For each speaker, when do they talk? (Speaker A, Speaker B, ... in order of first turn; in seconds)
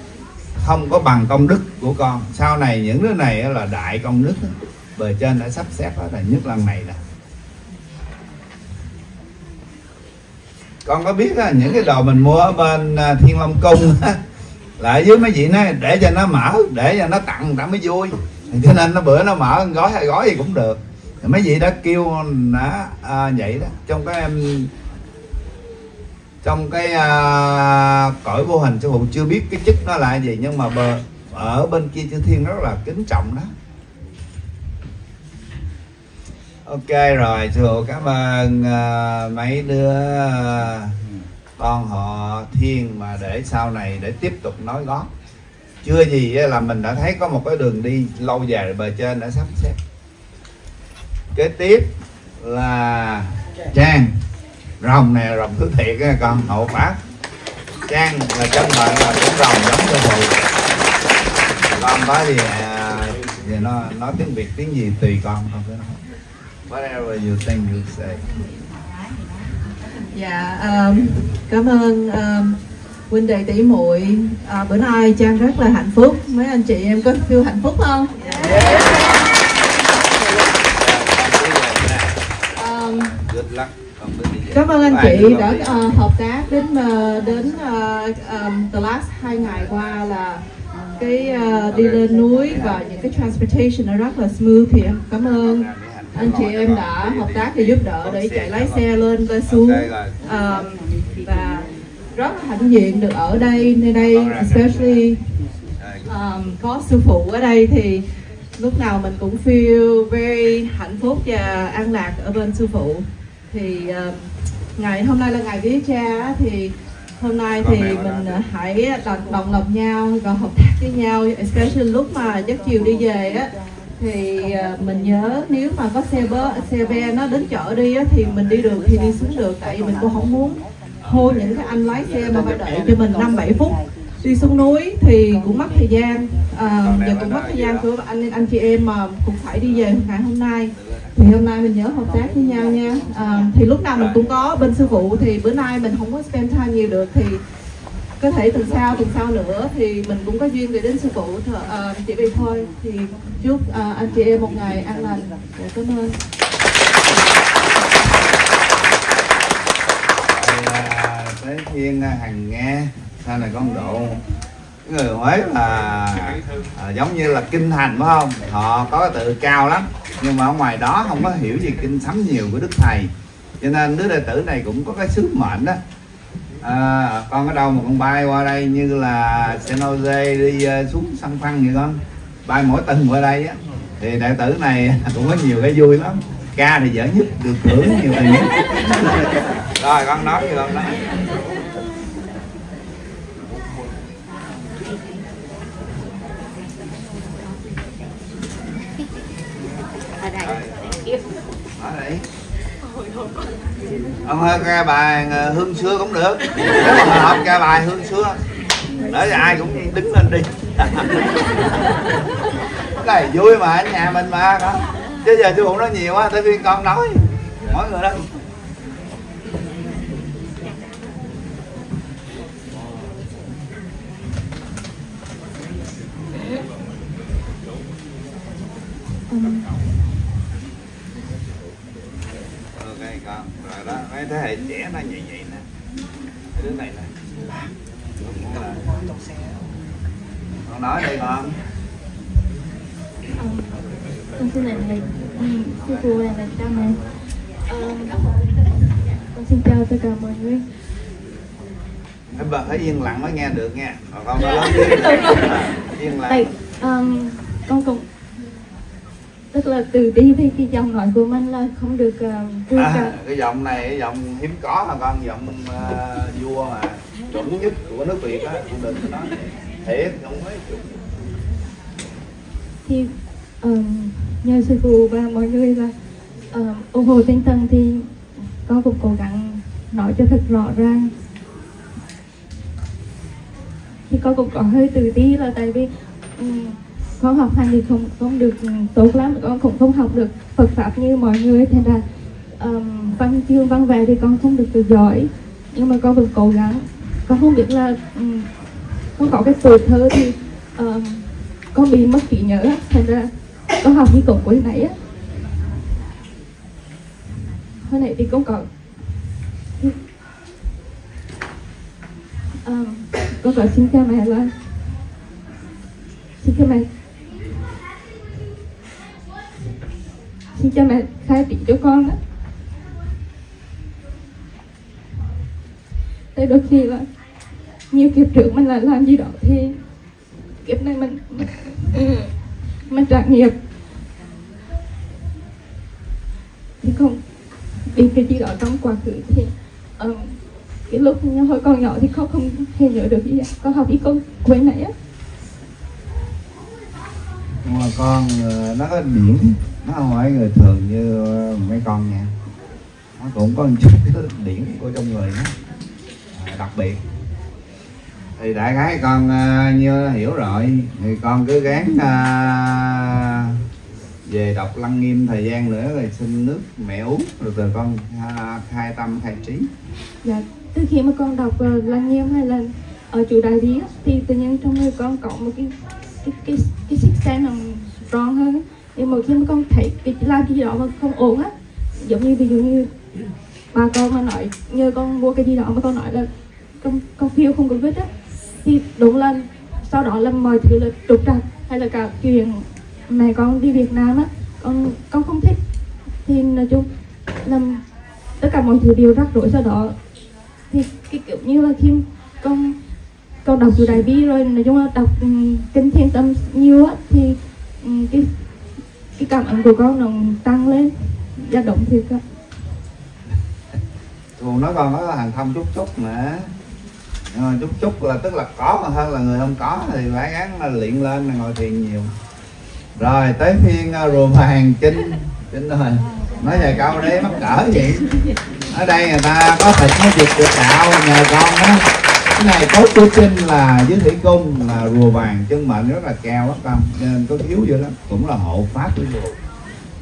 Speaker A: 0.6-7.0, 10.8-14.2, 14.8-24.7, 26.4-33.5, 36.6-41.0, 41.6-45.1, 45.8-49.8, 51.4-54.1, 54.8-57.0, 57.9-60.4, 61.7-66.0, 66.7-68.2, 78.3-79.1, 80.6-82.2, 83.0-86.1, 91.7-92.8, 95.2-98.9, 99.5-100.2, 104.1-105.0, 105.8-106.2, 117.5-118.5, 131.0-132.9, 136.7-137.9, 140.7-141.3, 143.9-144.9, 160.3-164.2, 164.8-175.8, 176.6-191.4, 200.4-201.1, 201.8-202.2, 204.2-208.4, 209.1-211.4, 213.0-218.3, 232.8-235.7, 236.5-237.1, 238.2-239.0, 240.7-241.6, 252.4-256.5, 262.7-271.1, 347.6-352.3, 353.2-355.6, 356.3-357.0, 358.4-363.6, 364.3-369.7, 414.4-416.5, 417.3-422.1, 423.0-428.1, 428.7-439.4
Speaker B: 70.1-72.6, 73.1-78.3, 82.5-83.2, 84.5-90.4, 91.0-105.2, 106.1-108.0, 108.6-114.2, 114.8-147.4, 148.2-156.2
Speaker C: 229.3-229.8, 243.4-243.9, 244.4-247.1, 247.7-248.4, 249.3-250.7, 254.5-255.5, 256.3-258.1, 259.5-263.2, 272.9-275.9, 276.5-278.1, 278.6-281.1, 284.1-298.5, 299.2-305.0, 307.9-308.7, 312.6-314.5, 316.4-316.9, 320.6-322.2, 326.4-327.1, 327.9-329.8, 330.6-332.3, 332.9-333.6, 336.8-337.2, 337.9-340.4, 340.9-344.9, 370.2-382.9, 383.7-386.3, 386.8-388.1, 388.6-395.6, 396.2-396.9, 397.4-397.8, 398.4-400.0, 400.7-402.8, 403.4-408.3, 409.2-412.2